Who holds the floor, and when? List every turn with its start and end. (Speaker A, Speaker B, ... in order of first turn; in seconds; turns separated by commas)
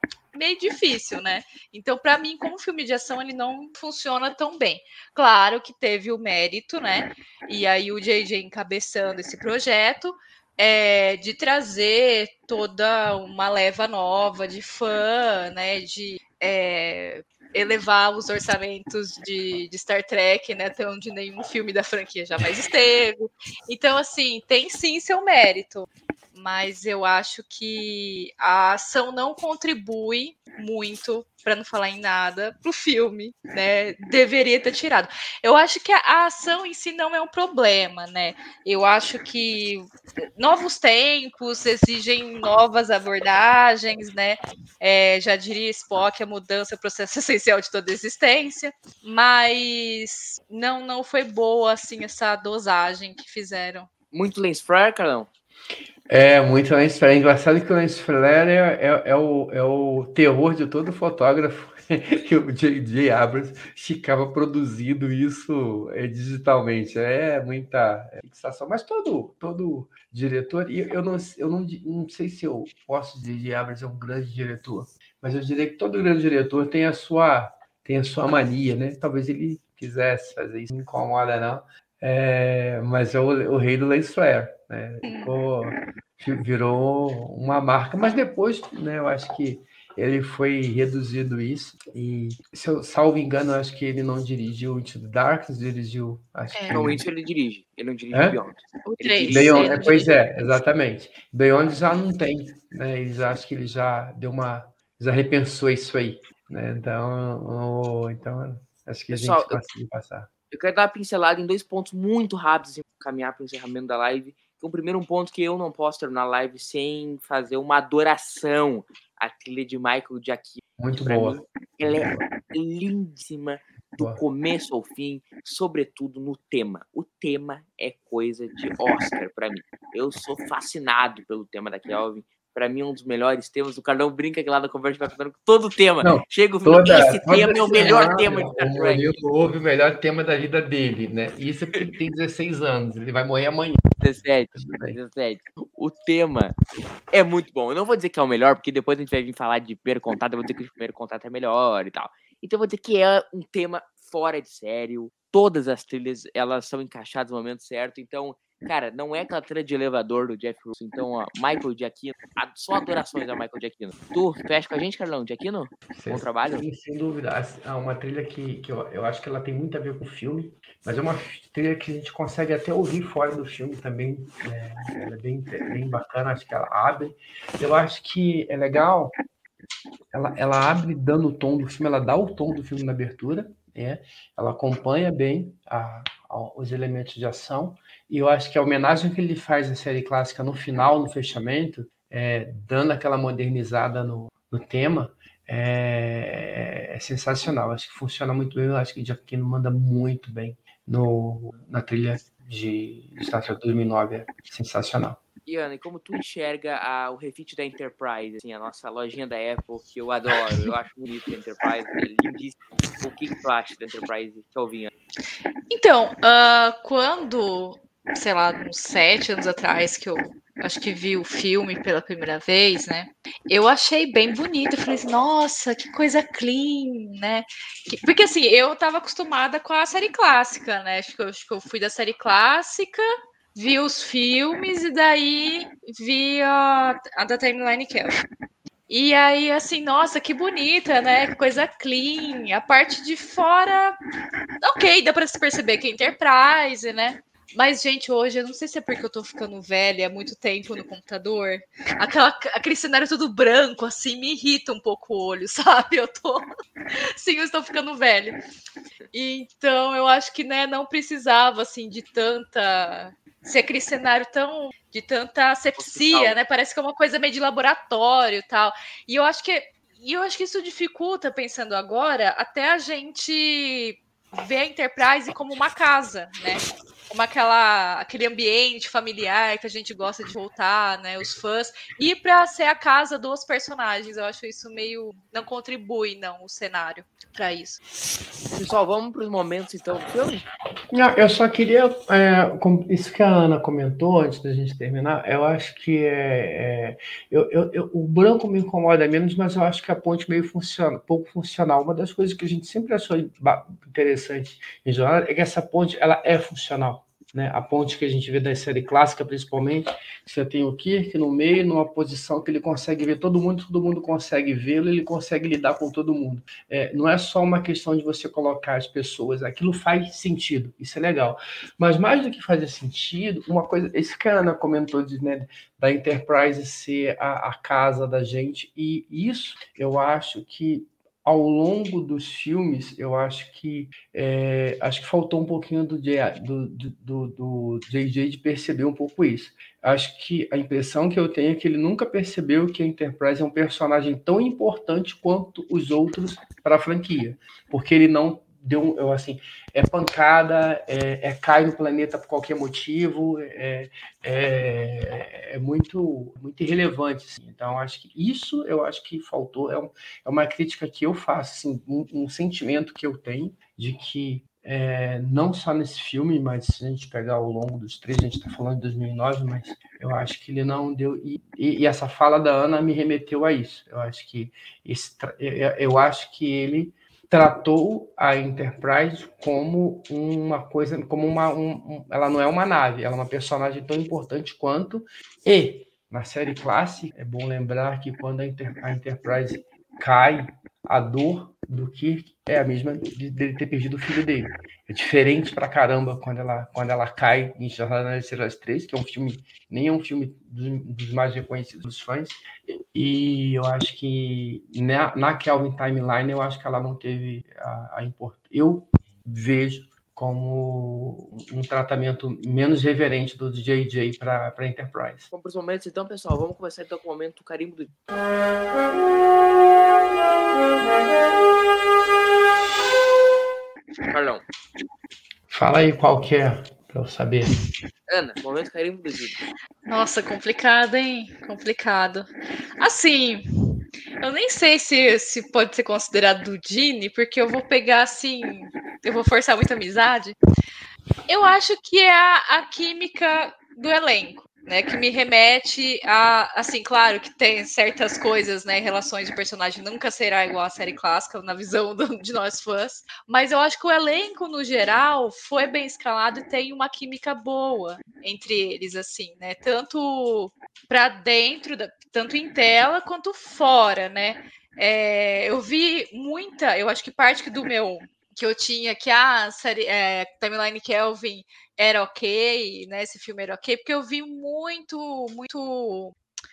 Speaker A: 0.3-39.9, Speaker A: 40.4-53.9, Speaker B: 54.1-55.3, Speaker C: 56.1-97.0, Speaker A: 85.0-85.3, Speaker A: 96.5-96.8, Speaker B: 96.7-100.1, Speaker C: 98.1-98.4, Speaker A: 98.8-100.2, Speaker C: 99.3-110.3, Speaker B: 109.1-109.6, Speaker B: 110.5-139.1, Speaker C: 120.8-122.2, Speaker C: 136.0-143.9, Speaker B: 144.0-146.6, Speaker C: 144.6-145.0, Speaker B: 147.1-166.7, Speaker C: 166.0-179.1, Speaker C: 180.1-205.2, Speaker B: 205.5-214.9, Speaker A: 215.7-238.2, Speaker A: 238.9-244.0, Speaker A: 244.6-256.4, Speaker A: 257.2-258.4, Speaker A: 259.1-287.8, Speaker B: 265.8-266.4, Speaker B: 288.5-290.5, Speaker C: 290.9-415.3, Speaker B: 415.3-417.9, Speaker B: 424.1-424.4, Speaker C: 425.5-427.5, Speaker B: 428.1-429.4, Speaker A: 429.9-432.3, Speaker A: 432.8-433.4, Speaker A: 434.2-440.4, Speaker A: 441.3-476.1